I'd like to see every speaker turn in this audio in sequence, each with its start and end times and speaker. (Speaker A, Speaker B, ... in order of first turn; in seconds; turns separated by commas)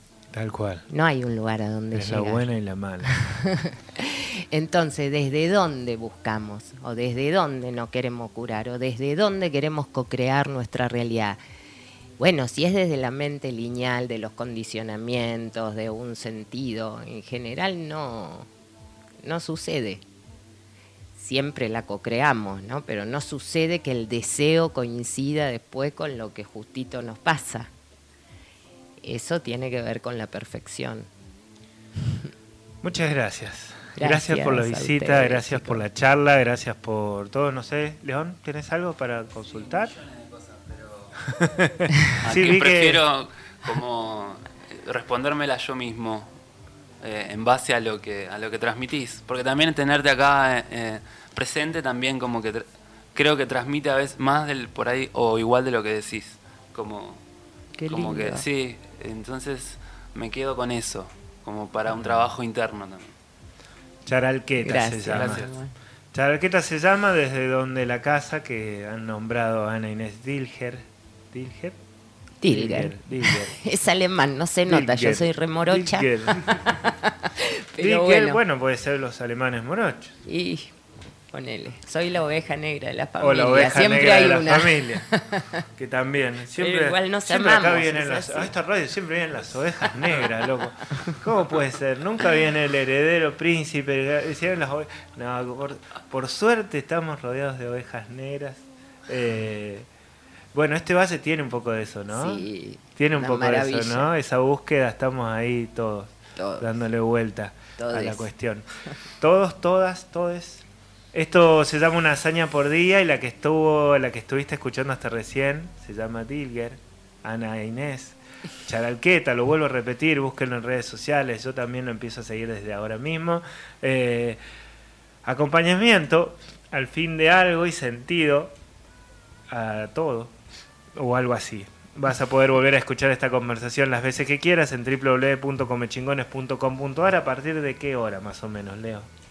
Speaker A: 0.3-0.8, Speaker B: 0.9-2.5, Speaker A: 1.9-3.1, Speaker B: 3.0-11.4, Speaker B: 12.2-18.5, Speaker B: 19.2-20.0, Speaker B: 21.1-27.7, Speaker B: 29.0-31.1, Speaker B: 32.0-32.3, Speaker A: 32.8-39.9, Speaker B: 34.0-35.8, Speaker C: 39.7-41.2, Speaker A: 41.2-43.0, Speaker C: 42.2-46.3, Speaker C: 47.0-57.2, Speaker B: 57.8-58.5, Speaker C: 57.9-63.1, Speaker A: 61.9-62.3, Speaker A: 64.0-65.5, Speaker B: 64.6-65.7, Speaker C: 65.1-65.5, Speaker A: 66.1-71.8, Speaker B: 72.4-78.4, Speaker A: 72.5-73.6, Speaker A: 74.7-76.6, Speaker A: 77.8-80.2, Speaker B: 80.2-80.7, Speaker B: 81.3-85.6, Speaker A: 83.2-85.0, Speaker A: 85.8-99.9, Speaker B: 86.5-88.5, Speaker A: 100.5-102.4, Speaker B: 102.1-104.1, Speaker A: 103.0-108.7, Speaker B: 106.3-106.6, Speaker B: 107.8-108.3, Speaker A: 109.2-124.4, Speaker A: 125.2-128.5, Speaker A: 129.5-130.3, Speaker A: 130.9-139.1